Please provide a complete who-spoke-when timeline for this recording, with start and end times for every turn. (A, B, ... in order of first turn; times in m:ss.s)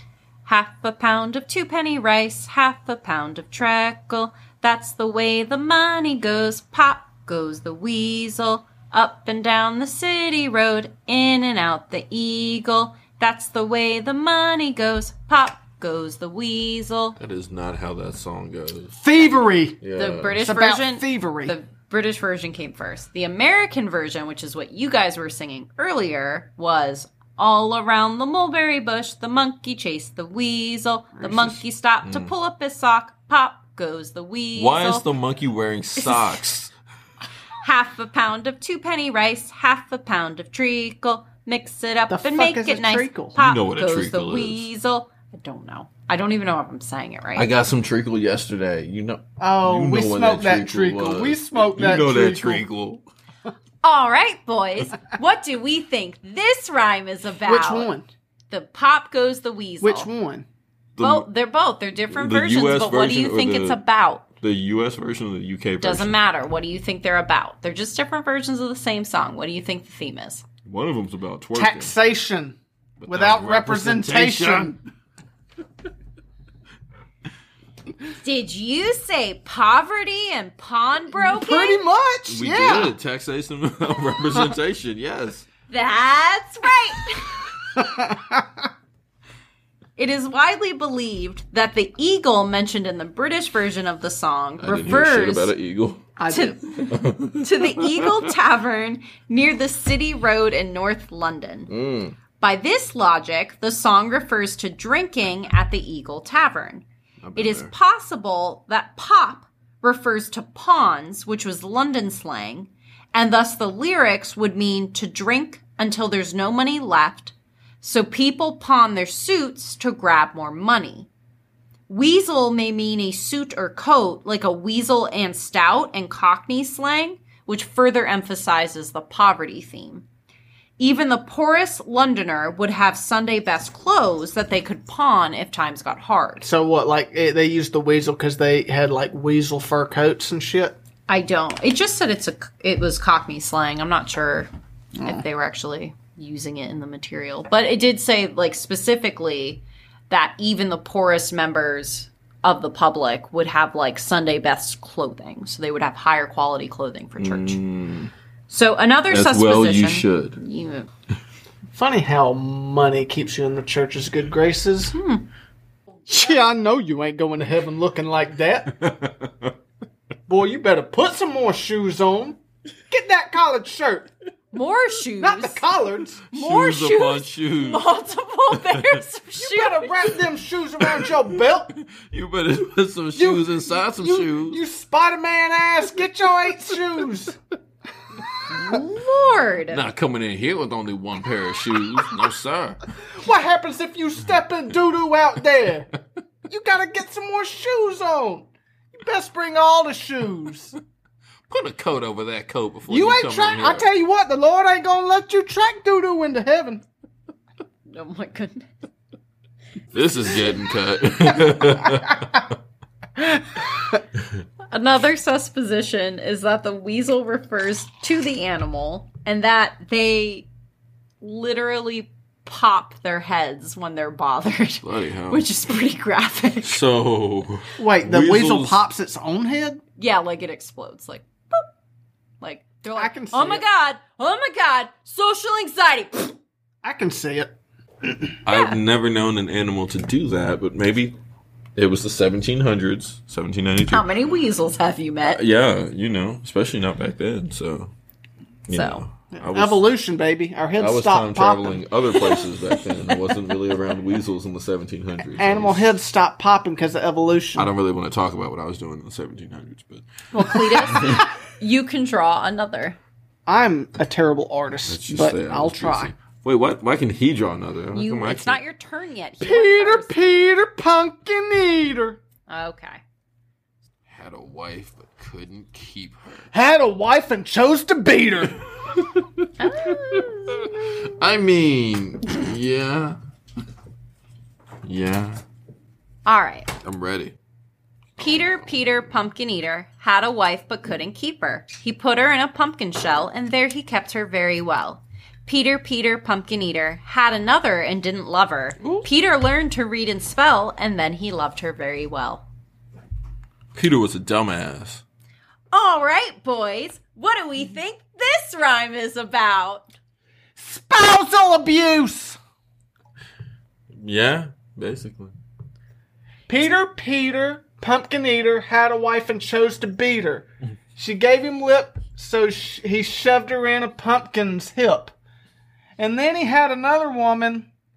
0:00.4-0:17.2 A
0:17.2-0:19.0 B
0:19.0-0:19.8 C
0:19.8-0:20.4 B
0:19.9-0:35.1 A
0:20.4-0:21.5 C
0:31.2-0:31.6 C
0:32.0-0:32.3 B
0:34.5-0:36.7 B
0:37.6-0:47.5 A
0:42.1-0:43.4 C
0:43.4-0:44.7 B
0:47.4-0:53.0 B
0:49.4-0:52.6 C
0:53.8-0:57.9 A
0:57.4-0:58.1 C
0:58.5-1:00.1 A
0:59.8-1:00.4 C
1:01.0-1:01.2 B
1:01.0-1:04.2 A
1:02.1-1:03.8 B
1:04.4-1:06.2 B
1:05.8-1:10.4 A
1:10.6-1:11.9 B
1:11.5-1:14.8 C
1:13.0-1:14.8 B
1:18.2-1:21.8 A
1:21.1-1:23.0 C
1:22.3-1:25.5 B
1:25.7-1:27.4 A
1:27.7-1:28.6 C
1:30.0-1:35.5 A
1:34.6-1:36.1 B
1:36.2-1:36.6 C
1:36.3-1:41.7 A
1:36.8-1:38.1 B
1:41.7-1:42.2 B
1:42.4-1:46.8 A
1:47.2-1:47.7 B
1:47.3-2:01.1 A
2:01.9-2:10.0 A
2:10.8-2:16.4 A
2:16.4-2:20.8 C
2:21.1-2:24.5 A
2:25.0-2:37.6 A
2:37.2-2:38.1 B
2:38.5-2:40.9 A
2:39.1-2:40.4 B
2:41.7-2:45.0 C
2:44.9-2:45.3 A
2:46.1-2:48.8 C
2:48.8-2:49.5 B
2:50.3-2:52.4 C
2:52.9-2:54.1 C
2:54.5-2:55.6 A
2:55.2-2:56.2 C
2:56.3-2:57.9 B
2:56.3-3:00.1 A
2:58.5-2:59.0 B
2:59.4-3:01.7 C
3:01.7-3:04.6 B
3:03.2-3:07.4 C
3:08.5-3:09.8 A
3:09.7-3:12.8 B
3:13.1-3:15.9 C
3:16.5-3:20.7 C
3:21.5-3:23.8 B
3:22.9-3:26.8 C
3:27.9-3:28.7 A
3:29.9-3:32.4 B
3:34.7-3:40.5 A
3:41.2-3:46.8 A
3:44.8-3:45.4 B
3:46.6-3:48.8 B
3:47.8-3:49.8 C
3:50.0-3:51.7 A
3:52.4-3:56.3 A
3:53.0-3:53.6 C
3:56.8-3:57.5 C
3:58.4-4:01.1 B
3:58.5-3:58.8 A
4:01.8-4:04.1 B
4:03.9-4:05.4 A
4:05.3-4:07.9 B
4:08.7-4:09.8 B
4:08.7-4:09.0 A
4:09.3-4:11.8 C
4:10.8-4:15.8 B
4:15.3-4:17.7 C
4:17.6-4:21.2 B
4:20.3-4:23.0 A
4:23.5-4:26.1 C
4:24.9-4:28.6 B
4:27.9-4:30.1 A
4:29.4-4:32.2 C
4:32.5-4:33.0 A
4:34.1-4:36.5 B
4:36.5-4:38.6 C
4:39.0-4:39.2 B
4:39.6-4:40.7 A
4:40.2-4:43.2 B
4:44.8-4:45.4 B
4:46.2-4:46.7 A
4:46.8-4:47.3 B
4:48.2-5:02.4 A
4:58.8-4:59.0 B
5:03.7-5:05.0 B
5:05.7-5:09.9 A
5:10.6-5:12.4 C
5:13.9-5:15.3 B
5:16.5-5:25.1 C
5:26.0-5:27.7 C